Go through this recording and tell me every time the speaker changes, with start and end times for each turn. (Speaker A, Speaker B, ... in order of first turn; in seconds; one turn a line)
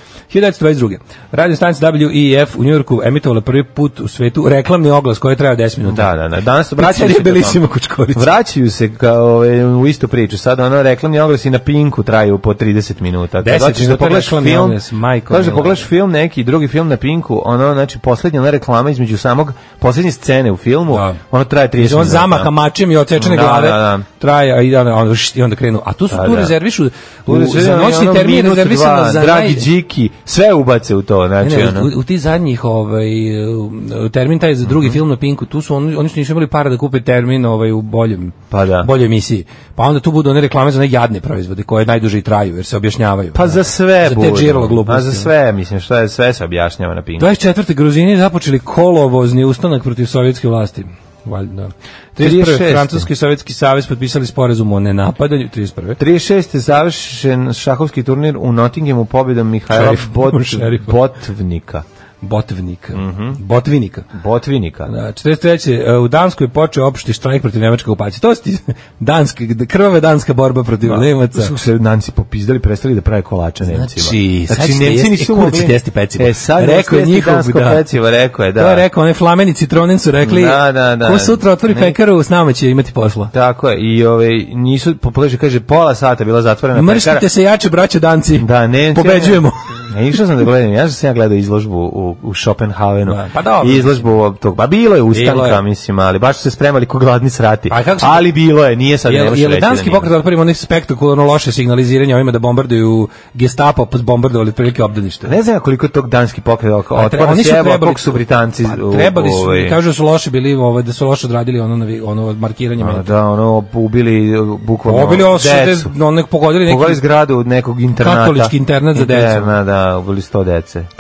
Speaker A: 0.3-6.1
Speaker B: 5.8-7.6
Speaker A: 6.8-8.3
Speaker B: 8.1-22.5
Speaker A: 13.4-15.9
Speaker A: 20.9-21.2
Speaker A: 21.8-29.7
Speaker B: 23.2-24.1
Speaker B: 26.1-26.6
Speaker B: 27.3-31.9
Speaker A: 31.4-45.3
Speaker B: 34.7-35.0
Speaker B: 38.5-38.9
Speaker B: 43.3-47.3
Speaker A: 47.2-56.0
Speaker B: 52.2-53.1
Speaker B: 56.0-61.8
Speaker A: 59.7-61.0
Speaker A: 62.2-64.1
Speaker B: 62.9-63.4
Speaker B: 64.1-64.9
Speaker A: 64.9-71.5
Speaker B: 70.8-78.8
Speaker A: 73.7-77.8
Speaker A: 78.6-83.3
Speaker B: 80.2-82.0
Speaker B: 83.3-87.3
Speaker A: 86.7-89.8
Speaker B: 88.4-100.1
Speaker A: 93.1-94.1
Speaker A: 95.1-95.6
Speaker A: 97.7-98.3
Speaker A: 99.1-105.3
Speaker B: 105.2-109.8
Speaker A: 107.0-113.1
Speaker B: 112.8-115.9
Speaker A: 114.9-117.0
Speaker B: 116.6-120.9
Speaker A: 118.0-119.5